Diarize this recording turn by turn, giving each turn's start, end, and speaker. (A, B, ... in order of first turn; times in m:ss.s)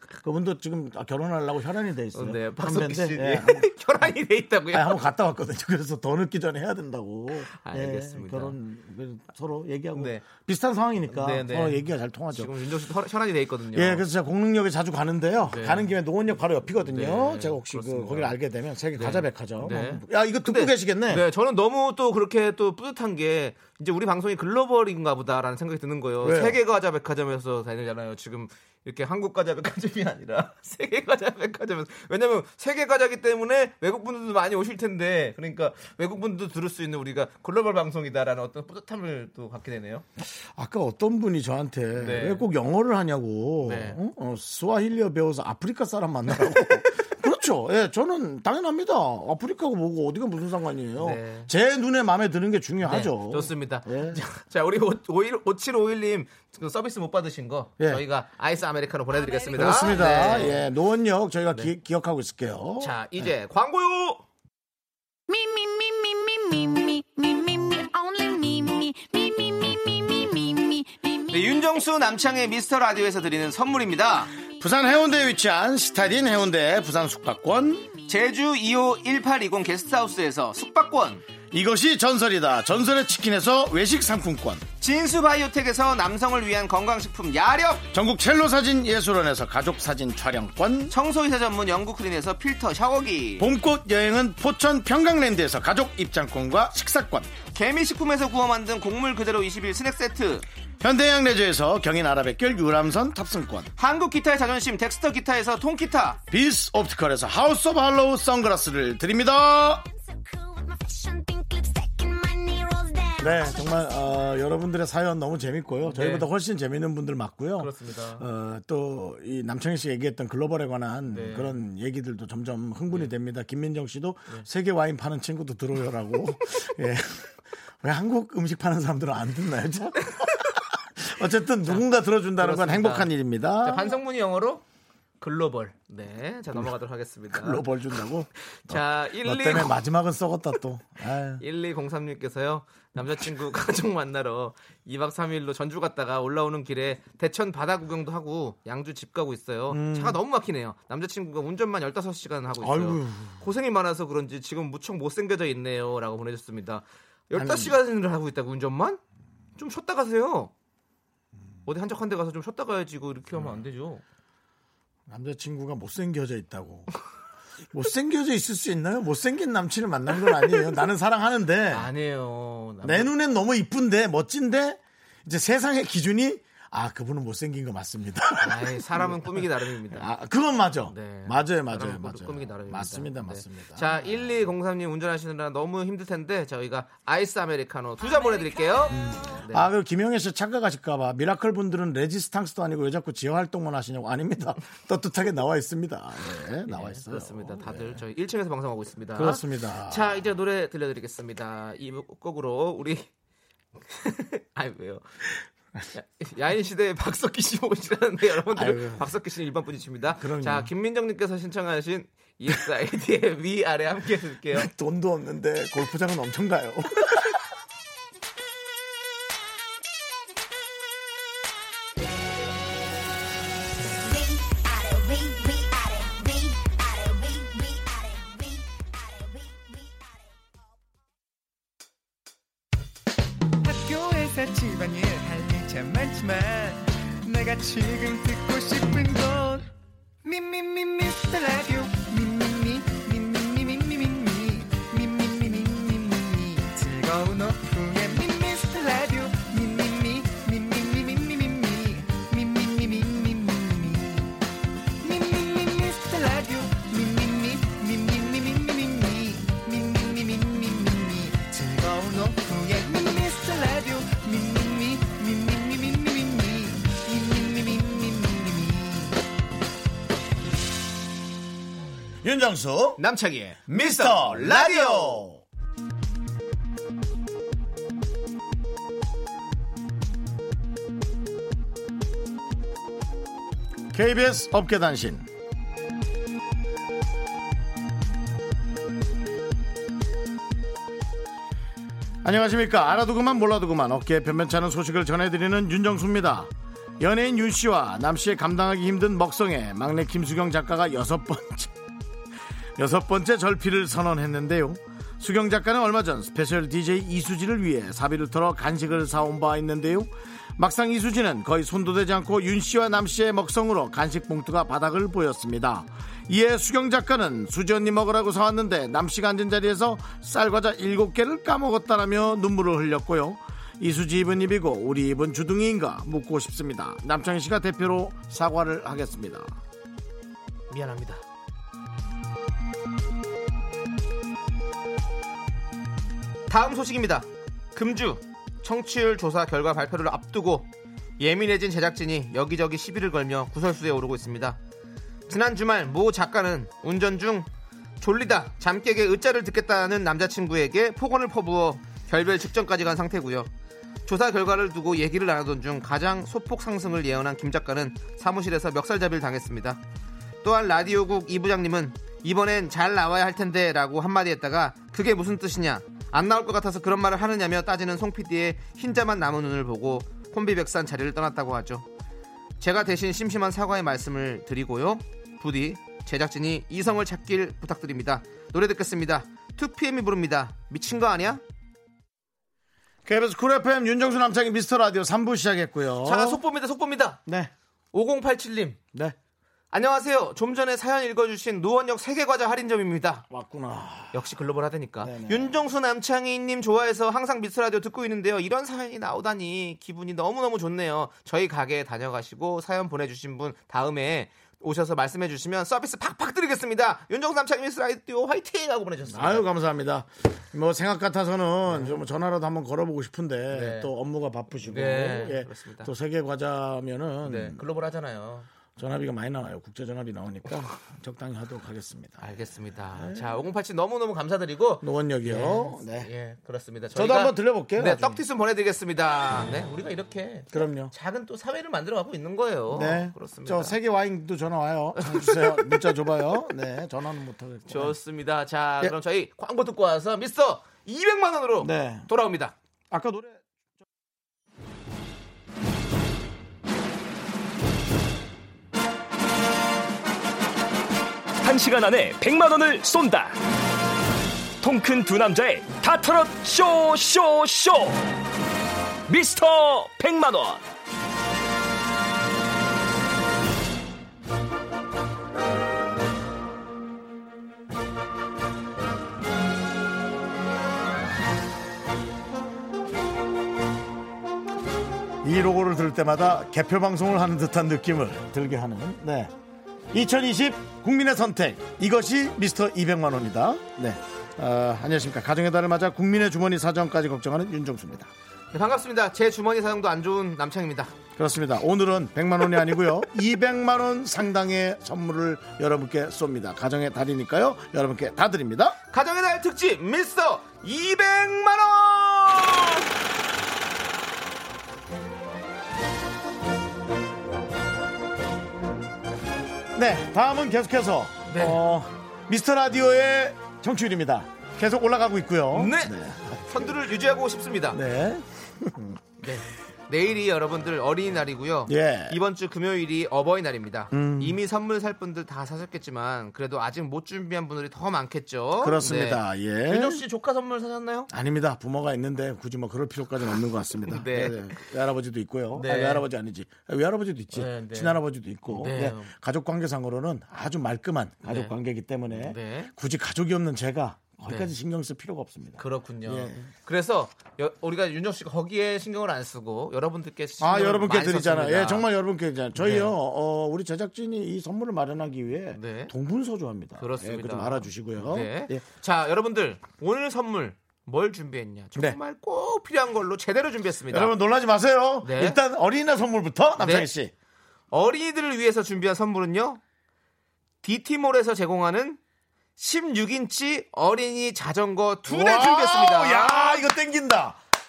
0:00.2-0:03.7 A
0:02.1-0:05.0 B
0:04.7-0:12.5 A
0:07.5-0:08.6 B
0:09.9-0:10.2 B
0:11.1-0:14.0 B
0:13.7-0:21.2 A
0:15.4-0:15.9 B
0:16.7-0:18.4 B
0:18.9-0:40.0 B
0:26.2-0:26.6 A
0:40.2-0:54.2 A
0:42.0-0:42.5 B
0:43.6-0:44.0 B
0:46.5-0:46.8 B
0:51.0-0:51.5 B
0:52.8-1:00.7 B
0:59.3-0:59.6 C
0:59.5-1:03.3 A
1:02.8-1:04.2 B
1:05.3-1:11.7 C
1:11.3-1:14.3 B
1:14.6-1:17.9 A
1:18.1-1:21.2 B
1:21.5-1:24.6 A
1:24.8-1:27.9 B
1:27.9-1:30.9 A
1:30.9-1:33.5 B
1:33.4-1:37.4 A
1:37.5-1:40.4 B
1:40.8-1:43.7 A
1:43.8-1:46.2 B
1:46.3-1:49.8 A
1:49.9-1:53.8 C
1:53.2-2:14.0 A
1:55.8-1:56.3 B
1:57.6-1:58.2 B
2:01.1-2:01.6 B
2:12.4-2:13.1 B
2:13.6-2:14.6 B
2:15.2-2:19.8 B
2:17.3-2:21.4 A
2:21.4-2:39.0 B
2:29.7-2:30.2 A
2:32.6-2:33.4 A
2:37.3-2:37.8 A
2:39.6-2:40.5 B
2:41.6-2:44.0 B
2:45.1-2:46.9 A
2:47.7-2:51.9 A
2:51.7-2:53.1 B
2:52.8-3:04.2 A
2:58.4-3:00.1 B
3:00.9-3:09.7 B
3:08.9-3:18.0 A
3:16.6-3:23.1 B
3:19.1-3:20.2 A
3:23.9-3:25.2 B
3:25.9-3:34.7 B
3:28.5-3:29.0 A
3:30.2-3:30.7 A
3:34.5-3:37.4 A
3:44.0-3:50.5 C
3:53.6-3:59.7 D
4:00.2-4:14.3 D
4:15.0-4:29.2 D
4:32.2-4:33.0 A
4:33.0-4:35.3 B
4:33.7-4:35.4 A
4:43.9-4:45.2 A
4:52.2-5:01.7 A
5:02.8-5:29.6 A
5:30.7-5:31.2 B
5:36.5-5:40.7 B
5:41.2-5:44.6 B
5:45.3-5:47.5 B
5:48.0-5:53.5 B
5:54.0-5:59.8 B
6:00.4-6:11.9 B
6:12.6-6:21.4 B
6:23.0-6:26.4 A
6:26.0-6:27.2 B
6:27.2-6:27.5 A
6:27.9-6:28.8 B
6:29.7-6:33.2 B
6:33.3-6:34.2 A
6:34.1-6:49.5 B
6:35.0-6:35.5 A
6:49.1-6:57.6 A
6:51.7-6:52.0 B
6:53.5-6:53.9 B
6:54.6-6:55.9 B
6:57.2-6:58.5 B
6:58.8-7:03.4 A
7:02.2-7:13.8 B
7:04.8-7:06.1 A
7:06.9-7:08.2 A
7:10.5-7:10.9 A
7:12.7-7:18.0 A
7:15.0-7:16.2 B
7:17.7-7:22.5 B
7:21.6-7:22.1 A
7:22.9-7:23.4 A
7:31.4-7:33.4 E
7:34.6-7:38.1 E
7:39.1-7:40.6 E
7:55.2-7:59.3 A
7:59.9-8:08.1 A
8:08.5-8:10.9 B
8:11.2-8:18.8 A
8:18.9-8:22.8 B
8:29.7-8:36.9 A
8:31.3-8:31.6 B
8:35.5-8:35.9 B
8:36.4-8:37.8 B
8:37.7-8:39.0 A
8:39.2-8:51.1 B
8:41.7-8:42.2 A
8:43.9-8:44.4 A
8:48.6-8:50.0 A
8:51.1-9:06.5 A
8:53.8-8:54.6 B
8:55.5-8:56.0 B
8:57.3-8:59.1 B
9:01.3-9:01.5 B
9:02.1-9:02.7 B
9:04.3-9:04.5 B
9:05.6-9:11.9 B
9:10.4-9:18.6 A
9:12.6-9:12.9 B
9:15.5-9:15.9 B
9:16.8-9:24.1 B
9:23.9-9:27.1 A
9:25.0-9:25.4 B
9:26.6-9:26.9 B
9:27.7-9:29.6 B
9:30.6-9:32.0 B
9:32.6-9:36.6 B
9:35.1-9:37.4 A